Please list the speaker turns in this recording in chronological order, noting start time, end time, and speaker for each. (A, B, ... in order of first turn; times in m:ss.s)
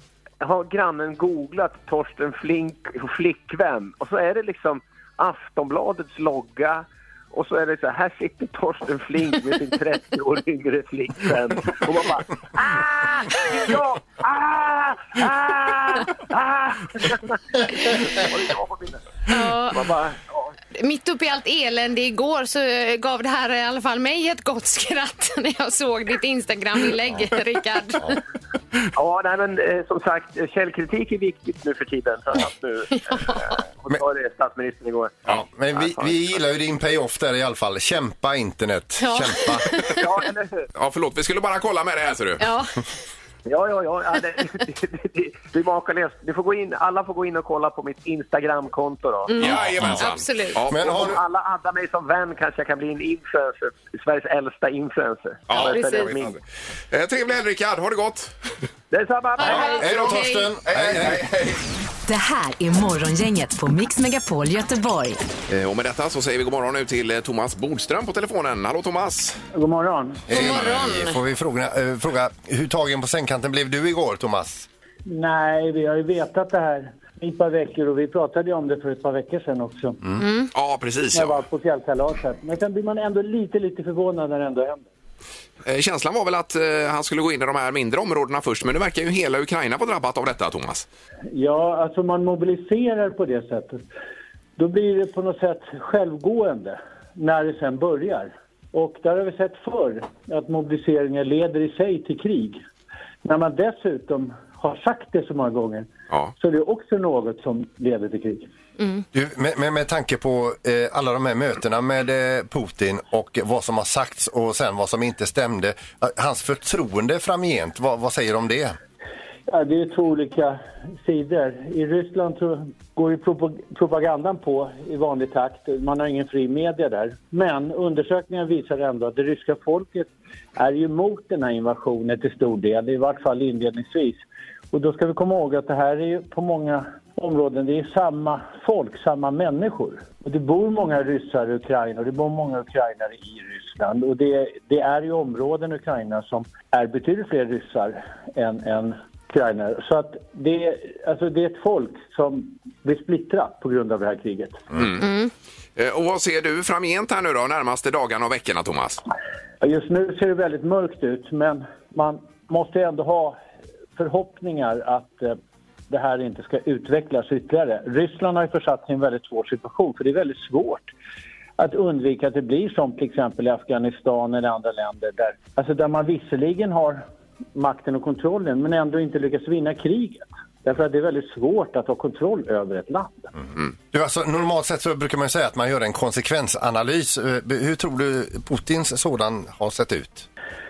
0:00.4-0:19.0 A
0:19.3-0:19.9 B
0:19.7-0:20.5 A
0:20.8-0:28.2 B
0:28.9-0:36.3 A
0:33.1-0:33.4 B
0:35.3-0:39.7 C
0:39.0-0:40.0 B
0:39.9-0:40.6 A
0:40.7-0:42.4 D
0:42.4-0:42.7 B
0:43.4-0:49.3 A
0:49.3-0:50.6 B
0:49.4-0:51.0 D
0:49.5-0:50.0 C
0:50.7-0:51.2 C
0:50.8-0:56.4 A
0:55.5-0:56.4 D
0:55.5-0:56.1 B
0:56.9-0:58.3 D
0:58.9-0:59.8 A
0:59.4-1:00.5 B
0:59.4-1:01.3 C
1:00.6-1:01.6 D
1:02.0-1:05.2 E
1:05.5-1:09.4 D
1:09.5-1:10.2 F
1:10.3-1:14.7 C
1:10.3-1:11.2 B
1:15.1-1:20.0 F
1:20.2-1:20.5 B
1:20.5-1:21.4 D
1:21.1-1:24.9 F
1:25.6-1:30.8 D
1:31.3-1:33.8 F
1:34.6-1:42.6 F
1:43.2-1:48.5 F
1:48.8-1:49.0 B
1:49.1-1:58.8 C
1:59.5-2:34.6 F
2:34.7-2:35.1 D
2:35.0-2:35.3 B
2:35.8-2:39.0 D
2:39.6-2:43.4 F
2:44.0-2:45.4 F
2:45.9-2:50.9 F
2:51.6-2:57.0 F
2:57.5-3:03.3 F
3:03.9-3:10.3 C